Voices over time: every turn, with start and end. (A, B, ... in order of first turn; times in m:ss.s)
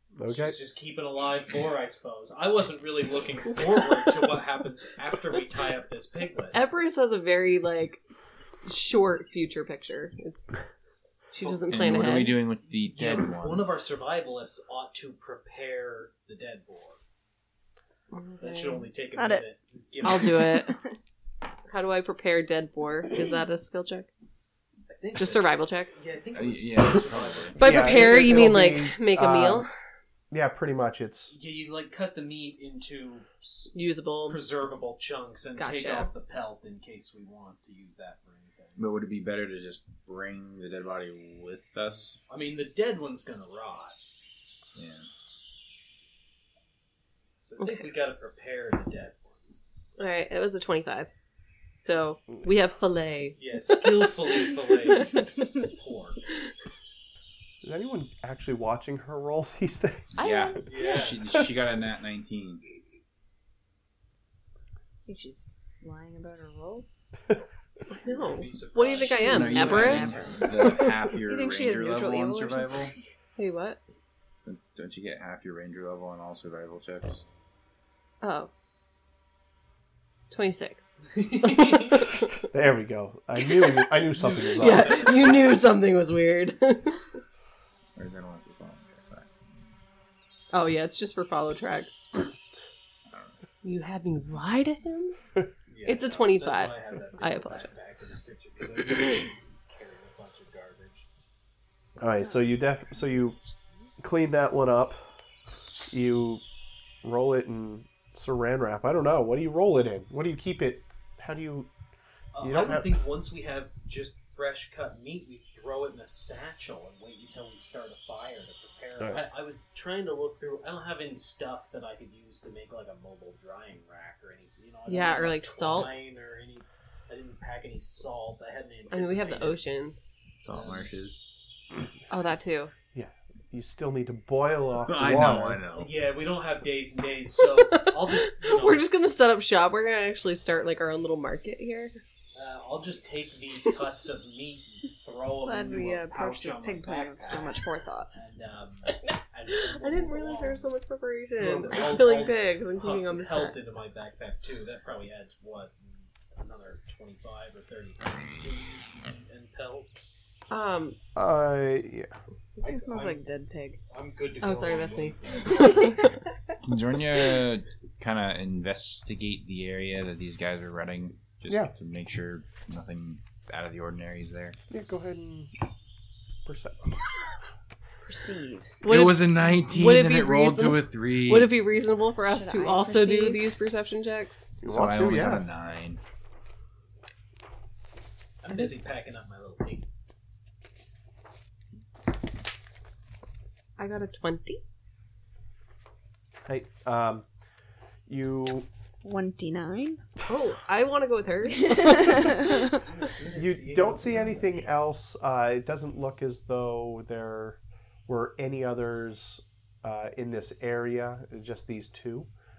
0:00.2-0:00.6 A
0:00.3-0:06.6 B
0:06.5-0:08.0 C
0:08.6-0:10.6 C
0:11.3-0:12.4 C
0:11.4-0:17.0 B
0:11.7-0:13.8 D
0:18.1-0:18.9 C
0:18.4-0:20.7 B
0:19.2-0:19.4 E
0:20.0-0:20.8 C
0:21.7-0:24.1 C
0:24.9-0:28.6 B
0:25.2-0:25.9 C
0:26.3-0:27.8 D
0:27.6-0:29.7 C
0:27.6-0:29.7 A
0:30.3-0:31.3 A
0:31.3-0:33.7 B
0:33.7-0:34.4 C
0:34.2-0:38.8 B
0:35.6-0:36.1 C
0:38.8-0:42.2 D
0:42.3-0:44.0 B
0:44.7-0:45.1 D
0:47.4-0:49.5 B
0:47.6-0:47.9 C
0:50.0-0:51.1 C
0:51.8-0:55.3 C
0:53.4-0:56.2 B
0:57.6-1:00.2 A
1:00.2-1:01.1 E
1:00.2-1:02.6 D
1:00.6-1:01.4 B
1:05.0-1:07.0 E
1:07.9-1:11.0 C
1:08.0-1:10.6 B
1:09.2-1:12.9 D
1:09.6-1:13.0 E
1:13.4-1:13.8 C
1:14.4-1:17.2 D
1:18.2-1:18.5 C
1:20.3-1:22.3 C
1:21.1-1:22.0 B
1:22.5-1:25.1 A
1:24.1-1:25.6 B
1:24.5-1:27.0 C
1:28.0-1:29.3 D
1:30.5-1:32.2 C
1:33.1-1:33.4 D
1:33.6-1:35.2 C
1:35.7-1:41.0 B
1:35.8-1:37.7 C
1:42.0-1:43.4 A
1:42.0-1:42.4 E
1:44.0-1:45.1 A
1:45.9-1:46.4 A
1:47.0-1:51.7 A
1:52.3-2:09.6 B
1:52.4-1:53.0 A
2:04.9-2:06.0 C
2:08.9-2:10.0 C
2:10.4-2:11.2 D
2:10.5-2:10.9 B
2:12.1-2:12.7 C
2:12.9-2:15.6 A
2:14.8-2:15.9 D
2:15.7-2:18.9 B
2:17.4-2:22.0 C
2:22.3-2:30.7 B
2:25.4-2:28.1 E
2:28.8-2:33.7 C
2:31.3-2:39.9 B
2:40.5-2:41.0 C
2:41.1-2:42.1 A
2:42.5-2:43.8 E
2:42.6-2:43.2 B
2:43.9-2:46.0 B
2:44.4-2:46.1 C
2:46.6-2:54.6 D
2:54.7-2:55.5 A
2:56.4-2:57.0 A
2:58.0-2:58.8 E
2:58.8-3:01.6 D
2:58.8-3:04.4 C
3:02.2-3:03.4 E
3:04.6-3:05.4 A
3:04.6-3:06.0 D
3:08.4-3:09.9 B
3:13.8-3:14.6 C
3:16.4-3:17.2 A
3:18.1-3:18.7 A
3:19.0-3:20.1 E
3:20.2-3:22.8 C
3:21.6-3:22.8 E
3:22.7-3:24.7 B
3:23.3-3:32.3 A